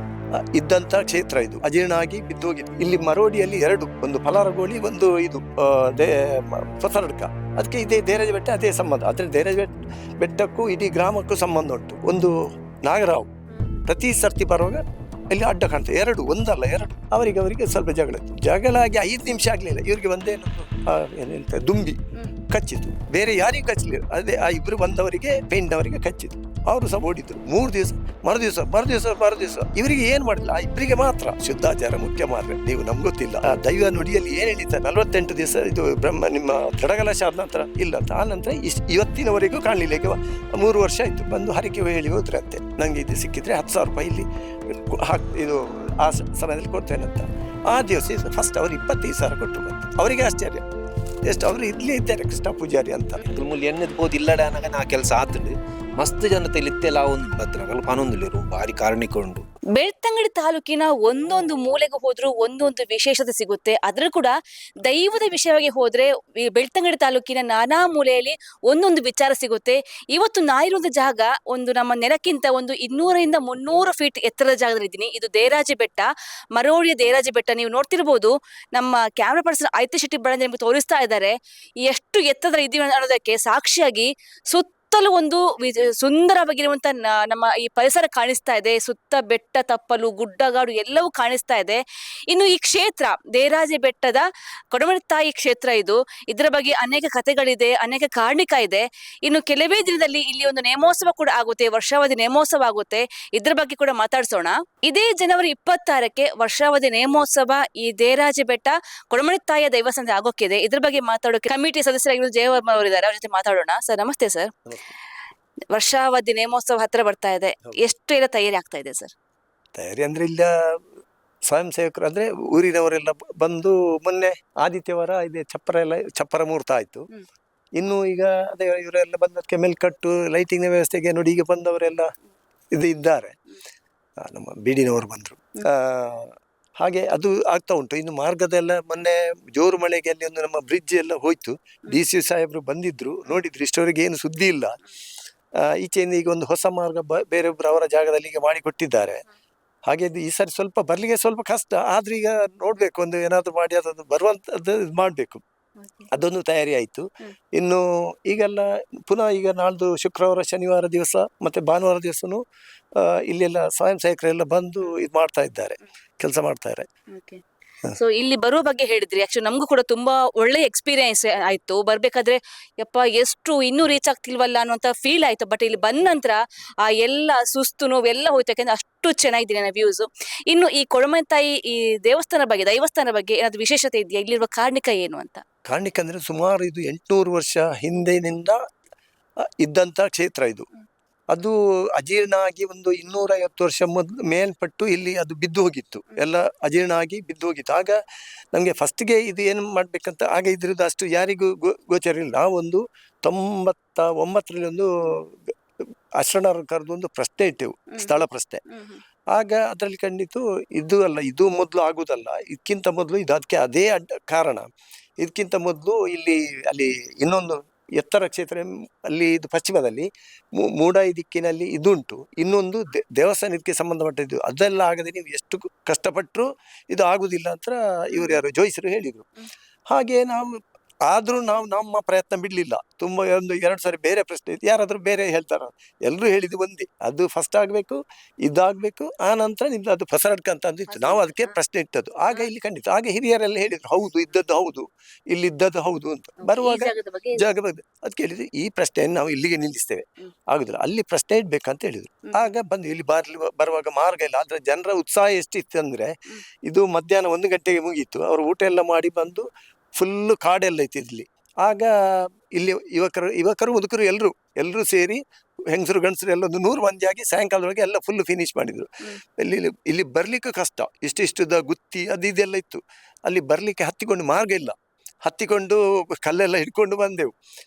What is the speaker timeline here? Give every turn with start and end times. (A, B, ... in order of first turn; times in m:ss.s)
0:00.5-0:12.3 A
0:12.8-0:13.3 A
0:13.5-0:13.8 B
0:13.8-0:50.6 A
0:51.2-0:53.2 A
0:53.2-0:59.4 C
0:59.8-1:04.3 B
1:04.8-1:21.3 B
1:21.8-1:54.5 B
1:55.7-1:59.1 B
1:59.7-2:00.8 A
2:01.5-2:07.1 A
2:07.8-2:12.1 A
2:12.7-2:13.3 A
2:14.2-2:24.8 A
2:25.8-2:29.2 A
2:29.9-2:35.4 A
2:35.8-2:36.1 B
2:36.1-2:37.0 A
2:37.6-2:42.4 A
2:43.0-2:46.9 A
2:47.1-2:47.4 B
2:48.0-3:05.4 B
3:05.7-3:08.6 A
3:09.6-3:10.7 A
3:11.3-3:18.0 A
3:18.5-3:25.5 A
3:26.2-3:28.6 A
3:27.9-3:28.2 B
3:28.7-3:29.0 B
3:29.3-3:34.7 A
3:35.2-3:40.1 A
3:40.6-3:49.3 A
3:49.9-3:50.5 A
3:51.1-4:19.5 A
4:00.9-4:01.5 B
4:06.4-4:07.4 B
4:20.0-4:34.7 A
4:35.2-4:37.3 A